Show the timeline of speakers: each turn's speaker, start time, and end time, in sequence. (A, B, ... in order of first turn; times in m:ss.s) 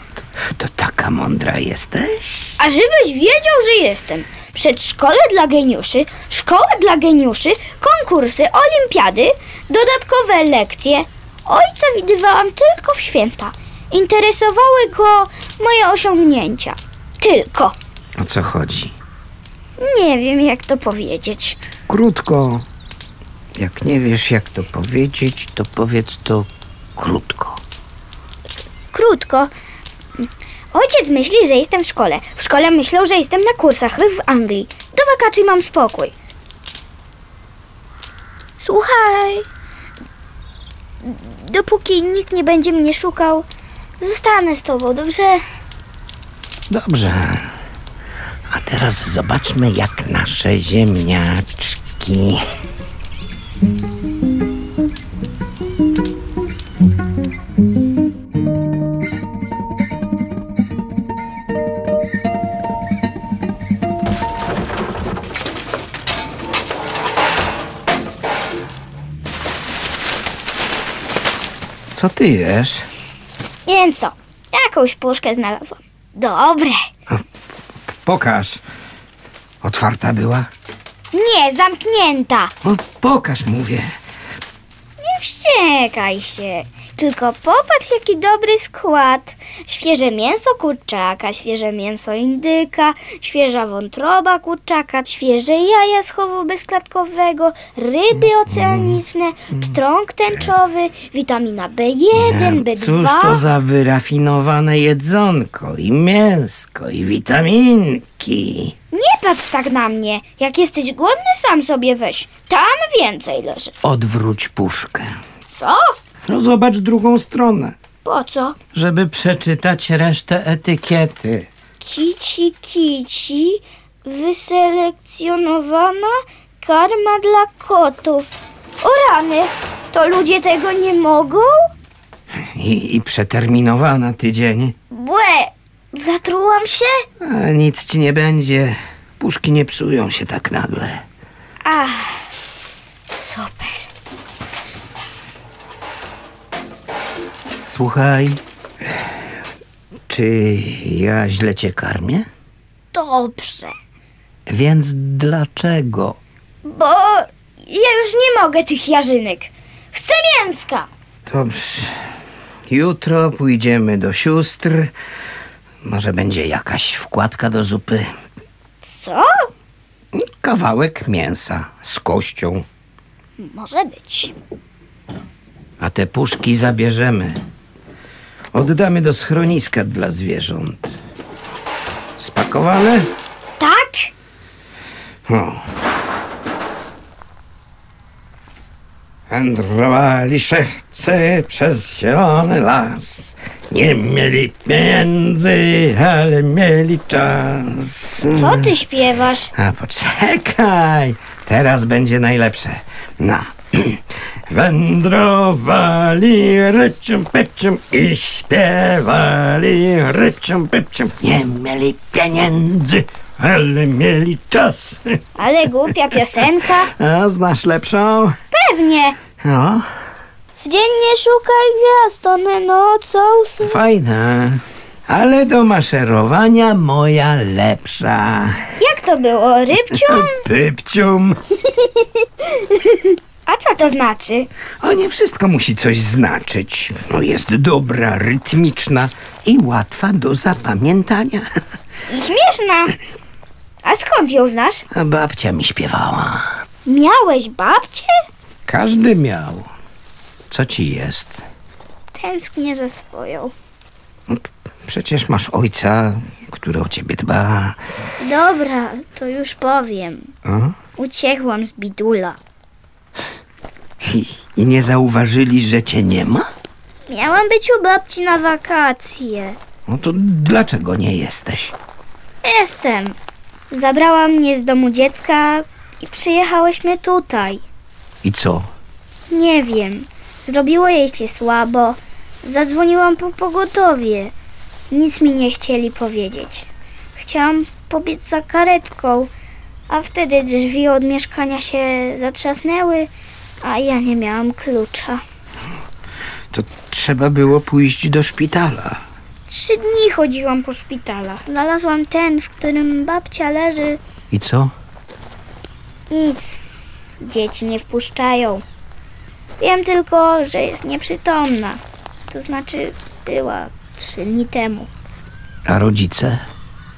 0:00.4-0:02.5 A
0:02.6-0:17.8 B
0:18.2-0:19.0 A
0:19.8-0:21.6 B
0:21.9-0:22.6 A
0:23.6-0:27.6 A
0:28.9-0:29.5 B
0:30.2-0:36.1 B
0:38.6-0:39.5 B
0:41.0-0:43.5 B
0:44.0-0:45.4 B
0:46.7-0:47.6 A
0:48.5-0:52.5 A
1:11.9-1:12.9 A
1:13.7-1:16.8 B
1:17.9-1:18.6 A
1:19.6-1:20.5 A
1:21.1-1:22.5 B
1:22.6-1:24.0 A
1:25.0-1:43.4 B
1:38.5-1:39.0 A
1:42.2-1:48.8 A
1:48.9-1:53.8 B
1:53.8-1:55.2 A
1:55.5-1:56.0 B
1:56.3-1:57.8 A
1:58.0-1:58.6 B
1:58.7-2:01.5 A
2:01.8-2:11.5 B
2:12.4-2:14.8 A
2:14.9-2:17.0 B
2:17.2-2:21.0 A
2:21.6-2:22.3 B
2:23.2-2:23.9 B
2:27.6-2:28.4 A
2:30.1-2:32.3 A
2:32.9-2:33.8 B
2:34.5-2:36.2 A
2:36.6-2:40.9 B
2:41.3-2:42.1 A
2:42.7-2:44.9 A
2:45.8-2:48.1 A
2:48.8-2:49.5 B
2:50.1-2:52.6 A
2:53.4-2:54.3 B
2:55.8-2:57.4 A
2:58.5-3:01.0 A
3:02.2-3:03.1 A
3:03.6-3:04.1 B
3:05.3-3:05.7 A
3:09.3-3:18.8 A
3:18.3-3:19.5 B
3:19.5-3:35.2 A
3:35.4-3:36.9 B
3:36.8-3:38.4 A
3:38.5-3:39.2 B
3:39.4-3:39.9 A
3:40.6-3:43.8 B
3:43.6-3:48.7 A
3:48.8-3:50.4 B
3:49.9-3:51.4 A
3:52.6-3:54.5 B
3:54.8-4:01.5 A
4:02.1-4:03.0 B
4:03.8-4:04.8 B
4:04.9-4:06.6 A
4:06.9-4:08.1 B
4:08.7-4:09.7 A
4:10.5-4:11.4 A
4:12.1-4:13.5 B
4:14.3-4:17.8 A
4:18.2-4:20.3 B
4:20.4-4:20.8 A
4:21.0-4:22.4 B
4:24.0-4:26.5 A
4:27.1-4:29.6 B
4:29.9-4:31.8 A
4:32.4-4:33.2 B
4:33.7-4:37.6 B
4:38.2-4:38.7 A
4:39.3-4:44.3 B
4:44.9-4:49.3 B
4:49.9-4:53.1 B
4:53.6-4:55.2 B
4:56.5-4:59.0 A
4:59.5-5:04.0 B
5:04.3-5:04.7 A
5:06.1-5:06.6 B
5:07.2-5:08.6 B
5:09.6-5:14.9 B
5:15.7-5:16.4 A